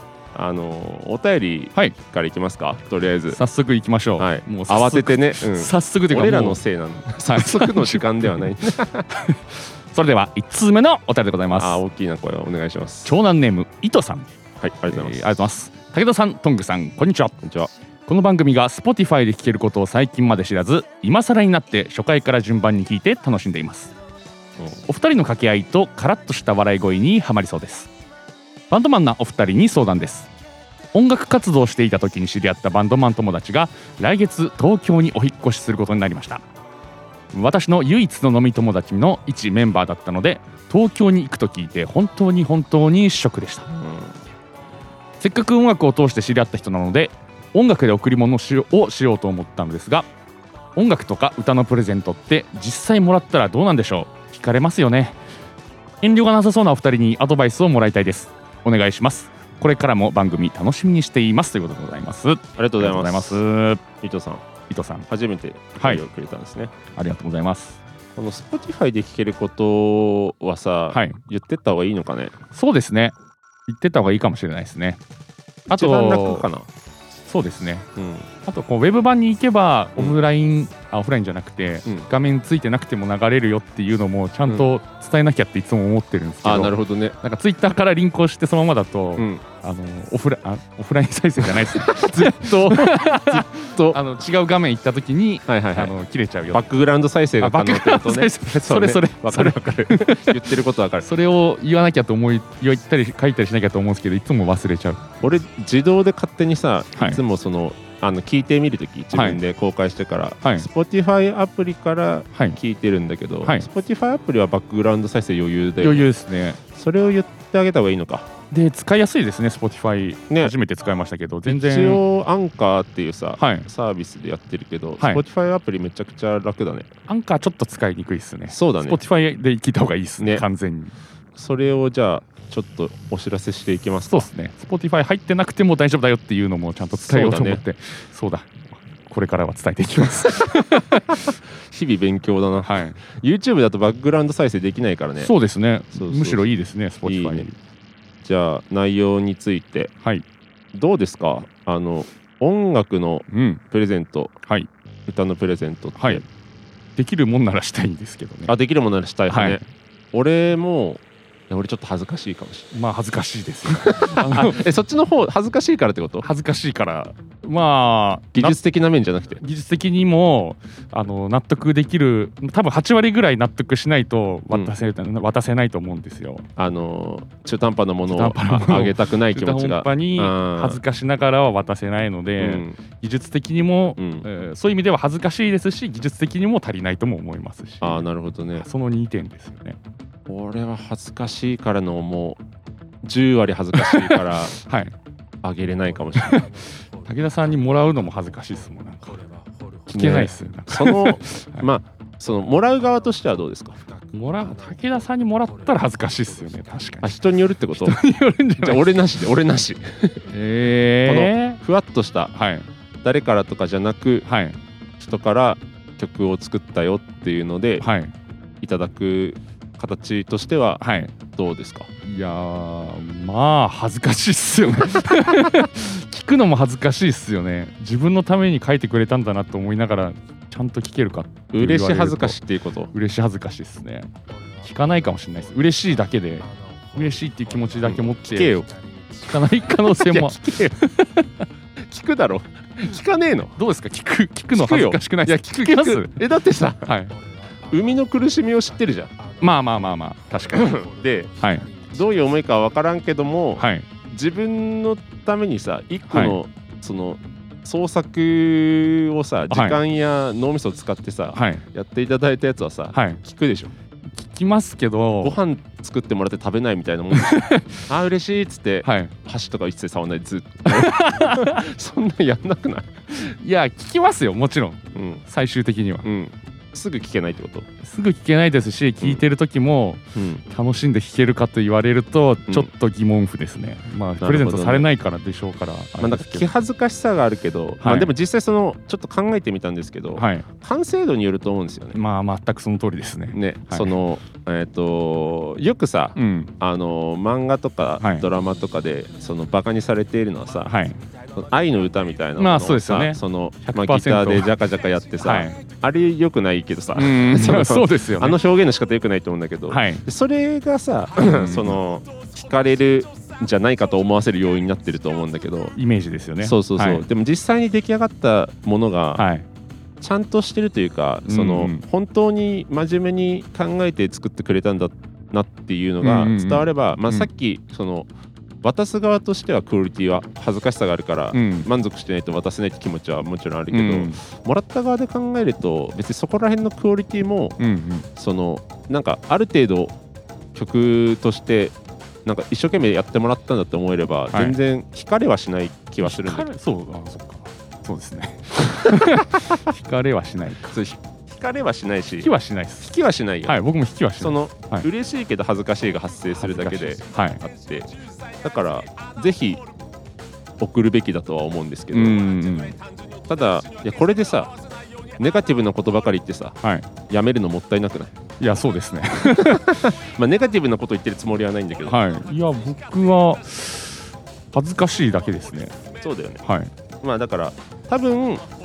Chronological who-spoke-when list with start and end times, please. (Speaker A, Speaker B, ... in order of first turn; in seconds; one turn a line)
Speaker A: 0.3-3.4
Speaker B: 3.3-6.6
Speaker A: 4.2-9.1
Speaker B: 7.1-8.5
Speaker B: 9.1-11.8
Speaker A: 11.5-13.1
Speaker B: 13.0-14.3
Speaker A: 14.6-15.2
Speaker B: 14.9-17.4
Speaker A: 17.4-17.7
Speaker B: 18.1-23.9
Speaker B: 24.9-27.9
Speaker B: 28.7-30.3
Speaker B: 30.9-36.4
Speaker B: 37.3-43.7
Speaker A: 43.7-44.1
Speaker B: 45.2-50.1
Speaker B: 50.7-55.2
Speaker B: 56.0-63.8
Speaker A: 62.5-63.4
Speaker A: 64.0-64.5
Speaker B: 64.7-65.0
Speaker A: 65.1-66.7
Speaker B: 66.9-67.8
Speaker A: 68.2-72.3
Speaker B: 70.9-71.2
Speaker B: 72.5-73.1
Speaker B: 73.7-75.0
Speaker B: 75.7-76.5
Speaker A: 75.7-76.7
Speaker B: 77.2-77.9
Speaker A: 78.0-78.3
Speaker B: 78.5-96.7
Speaker A: 86.4-87.2
Speaker A: 89.2-89.4
Speaker A: 91.4-94.0
Speaker A: 95.5-95.9
Speaker A: 96.5-101.1
Speaker B: 97.4-105.1
Speaker A: 105.2-116.1
Speaker B: 106.9-107.2
Speaker B: 109.1-109.4
Speaker B: 115.8-116.6
Speaker A: 116.7-118.3
Speaker B: 118.5-122.0
Speaker A: 121.5-126.9
Speaker B: 123.4-123.7
Speaker B: 127.1-130.9
Speaker A: 128.5-129.0
Speaker A: 131.3-134.3
Speaker B: 134.1-141.2
Speaker A: 136.9-137.6
Speaker A: 140.3-145.3
Speaker B: 142.6-143.0
Speaker B: 145.2-147.6
Speaker A: 145.9-146.4
Speaker A: 147.1-147.5
Speaker A: 148.2-149.9
Speaker A: 150.7-154.3
Speaker B: 153.3-153.6
Speaker A: 155.1-156.2
Speaker B: 156.0-156.2
Speaker B: 157.0-158.5
Speaker A: 158.5-159.6
Speaker B: 159.3-159.6
Speaker A: 160.1-162.7
Speaker B: 162.7-164.7
Speaker A: 163.7-166.3
Speaker B: 166.2-168.6
Speaker A: 168.3-169.4
Speaker B: 169.4-176.4
Speaker A: 176.6-180.8
Speaker B: 178.1-188.1
Speaker A: 182.4-182.8
Speaker A: 184.0-184.2
Speaker A: 187.8-188.7
Speaker B: 188.6-189.8
Speaker A: 190.3-192.4
Speaker A: 193.0-194.6
Speaker B: 193.7-194.9
Speaker A: 195.4-196.5
Speaker B: 196.2-199.2
Speaker B: 199.9-201.7
Speaker A: 199.9-203.8
Speaker B: 204.1-207.2
Speaker A: 207.0-208.0
Speaker B: 207.7-209.0
Speaker A: 208.6-210.3
Speaker B: 210.3-211.6
Speaker A: 211.0-212.3
Speaker B: 212.3-212.7
Speaker A: 213.0-214.3
Speaker B: 214.2-214.6
Speaker A: 215.0-217.9
Speaker B: 217.8-218.1
Speaker A: 218.6-221.9
Speaker B: 220.8-221.1
Speaker B: 222.0-232.4
Speaker A: 231.5-232.9
Speaker B: 232.9-234.1
Speaker B: 234.6-238.6
Speaker A: 237.8-238.7
Speaker B: 239.2-241.4
Speaker A: 239.8-240.8
Speaker A: 241.9-243.5
Speaker B: 243.6-246.2
Speaker A: 244.5-246.9
Speaker B: 246.8-247.1
Speaker A: 247.7-249.1
Speaker B: 249.4-250.8
Speaker A: 250.5-263.7
Speaker B: 251.4-251.7
Speaker B: 253.6-253.9
Speaker B: 256.1-256.4
Speaker B: 259.5-259.8
Speaker B: 261.3-261.6
Speaker B: 262.9-263.2
Speaker B: 264.1-265.4
Speaker A: 265.2-273.4
Speaker B: 267.1-267.9
Speaker B: 268.8-269.1
Speaker B: 270.7-271.6
Speaker B: 273.1-276.1
Speaker A: 274.9-275.2
Speaker A: 276.0-277.7
Speaker B: 277.8-286.5
Speaker A: 280.1-280.4
Speaker A: 284.2-284.9
Speaker A: 286.0-292.0
Speaker B: 287.8-288.1
Speaker B: 290.1-290.4
Speaker B: 291.9-293.9
Speaker A: 293.3-300.7
Speaker B: 296.1-296.5
Speaker B: 298.0-298.3
Speaker B: 300.6-301.0
Speaker A: 301.3-315.7
Speaker B: 302.4-304.5
Speaker B: 305.2-305.6
Speaker B: 306.9-308.4
Speaker B: 309.7-310.1
Speaker B: 311.2-311.8
Speaker B: 315.8-317.1
Speaker A: 316.4-319.2
Speaker B: 319.2-319.4
Speaker A: 320.0-328.1
Speaker B: 321.2-321.8
Speaker B: 326.0-327.3
Speaker A: 328.6-337.6
Speaker B: 331.3-331.7
Speaker B: 333.7-334.2
Speaker B: 337.6-338.1
Speaker A: 338.1-339.9
Speaker A: 340.5-346.5
Speaker B: 344.3-344.6
Speaker B: 346.0-350.7
Speaker A: 348.9-349.2
Speaker A: 350.7-353.6
Speaker B: 352.2-352.9
Speaker B: 353.4-354.9
Speaker A: 354.2-357.9
Speaker B: 356.4-357.4
Speaker A: 358.4-359.6
Speaker A: 360.6-362.2
Speaker B: 361.9-362.8
Speaker A: 363.3-364.5
Speaker A: 365.2-366.6
Speaker B: 366.6-366.9
Speaker A: 367.1-368.1
Speaker B: 368.4-369.9
Speaker A: 369.3-372.0
Speaker B: 371.9-375.8
Speaker A: 376.0-376.4
Speaker B: 376.4-376.7
Speaker A: 377.0-378.4